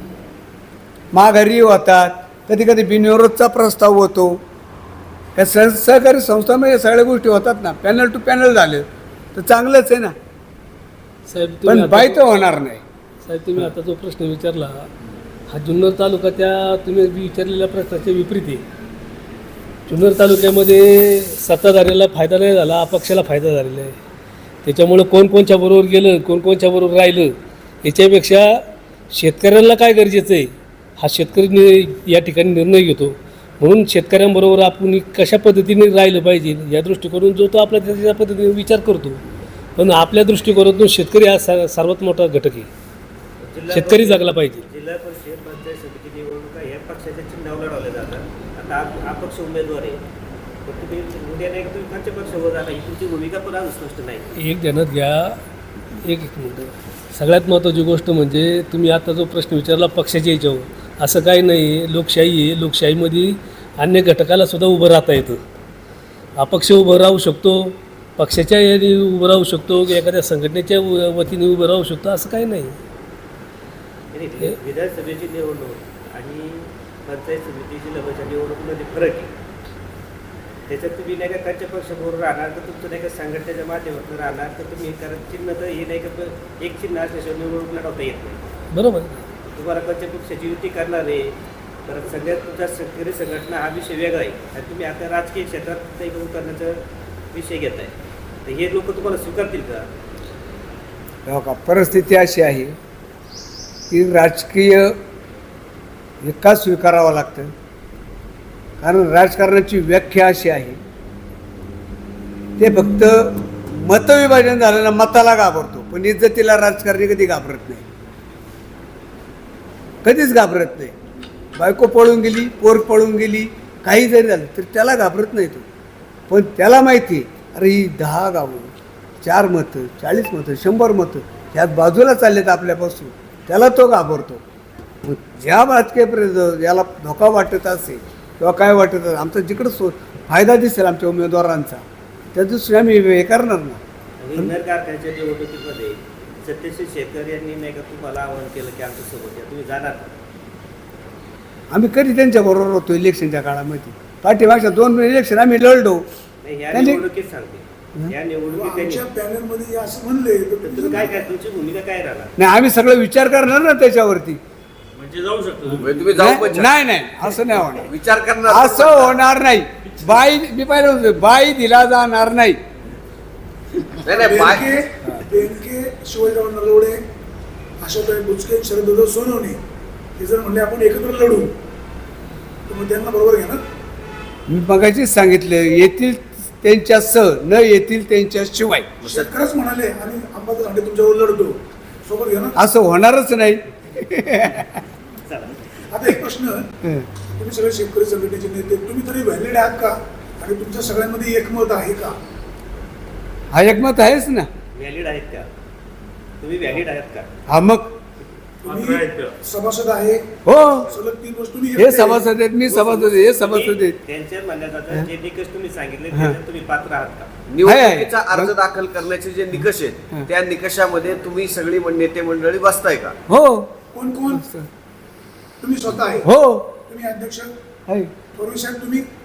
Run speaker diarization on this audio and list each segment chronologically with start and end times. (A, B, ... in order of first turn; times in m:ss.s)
0:01.1-0:04.4 A
0:05.4-0:10.1 A
0:11.3-0:12.2 B
0:11.6-0:12.8 A
0:13.2-0:14.9 B
0:15.5-0:18.6 B
0:19.9-0:24.0 B
0:24.6-0:39.2 B
0:39.8-0:42.7 B
0:43.4-0:50.0 C
0:43.7-0:44.6 B
0:50.6-0:54.2 C
0:54.4-0:55.4 B
0:56.0-1:05.4 B
1:06.4-1:12.8 B
1:14.1-1:19.3 C
1:20.7-1:28.4 C
1:28.7-1:29.2 B
1:29.5-1:31.3 C
1:31.8-1:36.8 C
1:37.3-1:37.9 C
1:38.4-1:39.9 C
1:41.2-1:42.8 A
1:43.9-1:44.9 A
1:46.2-1:47.5 A
1:48.8-1:50.8 A
1:52.6-1:57.8 A
2:00.0-2:00.9 A
2:01.6-2:05.6 A
2:06.3-2:08.7 A
2:09.2-2:14.4 A
2:15.0-2:21.8 A
2:22.3-2:23.8 A
2:24.2-2:30.1 C
2:31.7-2:36.0 A
2:36.4-2:39.0 C
2:36.7-2:37.0 A
2:38.5-2:41.2 D
2:40.6-2:42.3 C
2:42.4-2:44.4 A
2:45.0-2:46.3 E
2:45.8-2:46.7 F
2:46.2-2:47.9 A
2:47.7-2:49.2 F
2:48.4-2:52.6 A
2:54.0-2:54.7 F
2:54.1-2:57.0 D
2:57.8-2:59.6 D
3:00.2-3:01.5 D
3:02.7-3:03.6 D
3:04.5-3:08.9 A
3:09.0-3:09.3 F
3:09.0-3:12.6 D
3:12.6-3:14.7 A
3:15.2-3:15.6 C
3:15.9-3:16.7 D
3:17.4-3:22.1 D
3:23.5-3:24.5 A
3:24.7-3:25.4 C
3:26.4-3:27.3 C
3:27.5-3:27.9 A
3:28.6-3:30.3 D
3:28.6-3:29.3 E
3:30.4-3:31.0 A
3:30.9-3:32.2 D
3:31.8-3:34.0 A
3:32.7-3:37.3 C
3:37.5-3:43.2 F
3:37.6-3:38.5 A
3:43.3-3:43.7 A
3:43.9-3:44.4 D
3:44.3-3:44.7 A
3:45.6-3:46.3 D
3:46.2-3:46.7 A
3:46.8-3:47.5 D
3:47.9-3:48.1 A
3:48.3-3:49.1 D